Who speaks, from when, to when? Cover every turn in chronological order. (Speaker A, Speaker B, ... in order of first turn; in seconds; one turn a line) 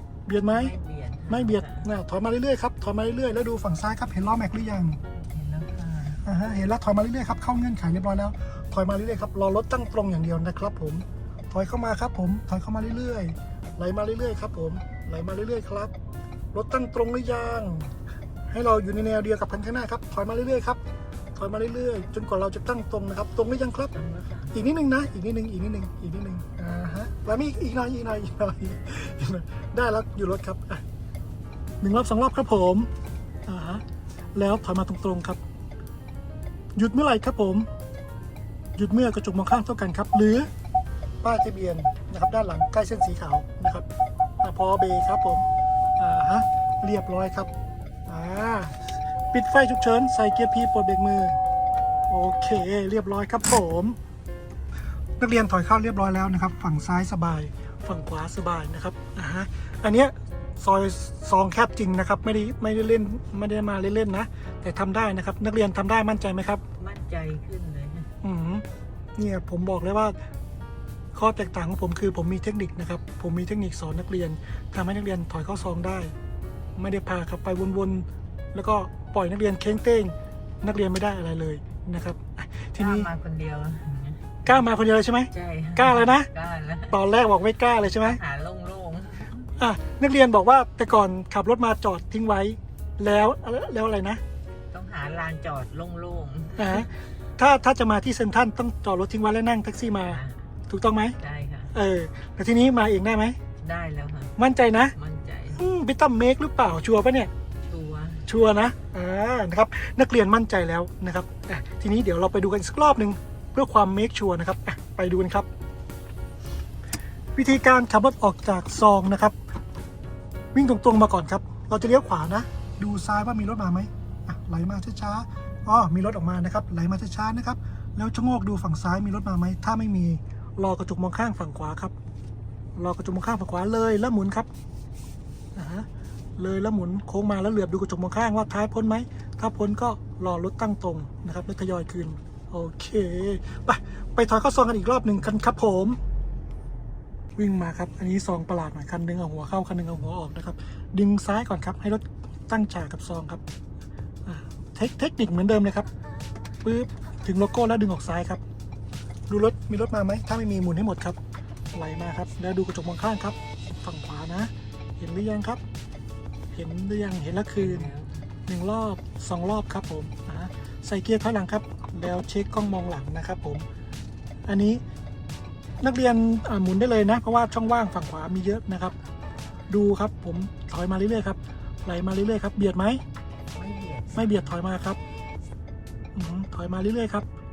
Speaker A: 0.2-0.7
Speaker B: 0.5-1.7
Speaker A: 1.3-5.0
Speaker B: 5.1-6.2
Speaker A: 6.2-15.9
Speaker A: 16.5-17.9
Speaker A: 18.5-20.8
Speaker A: 21.3-23.9
Speaker B: 24.0-24.4
Speaker A: 24.5-30.8
Speaker A: 31.8-32.9
Speaker A: 33.5-33.8
Speaker A: 34.3-35.4
Speaker A: 36.8-37.7
Speaker A: 38.8-40.5
Speaker A: 41.2-43.9
Speaker A: 44.4-45.5
Speaker A: 46.0-47.5
Speaker A: 48.1-48.8
Speaker A: 49.3-51.4
Speaker A: 52.1-54.0
Speaker A: 55.2-66.6
Speaker B: 66.8-68.1
Speaker A: 68.2-68.6
Speaker A: 69.2-70.1
Speaker A: 71.1-76.1
Speaker A: 76.8-83.1
Speaker B: 82.8-84.5
Speaker A: 84.5-86.3
Speaker B: 85.3-86.8
Speaker A: 86.9-88.2
Speaker B: 88.3-89.5
Speaker A: 89.6-94.2
Speaker B: 94.7-96.8
Speaker A: 96.5-101.2
Speaker B: 101.2-101.6
Speaker A: 101.7-103.4
Speaker B: 103.6-104.3
Speaker A: 104.4-105.0
Speaker B: 105.1-105.4
Speaker A: 105.5-107.3
Speaker B: 107.7-108.2
Speaker A: 108.2-115.5
Speaker A: 117.3-119.4
Speaker A: 120.5-131.9
Speaker A: 132.8-134.5
Speaker A: 135.5-146.0
Speaker A: 147.4-153.4
Speaker A: 154.2-155.9
Speaker A: 156.6-158.4
Speaker A: 159.3-161.2
Speaker A: 161.7-165.6
Speaker A: 166.5-167.9
Speaker B: 167.6-168.2
Speaker A: 168.4-173.7
Speaker A: 174.4-174.8
Speaker A: 175.8-178.9
Speaker A: 179.7-183.0
Speaker B: 183.6-184.5
Speaker A: 184.1-185.0
Speaker A: 186.1-187.3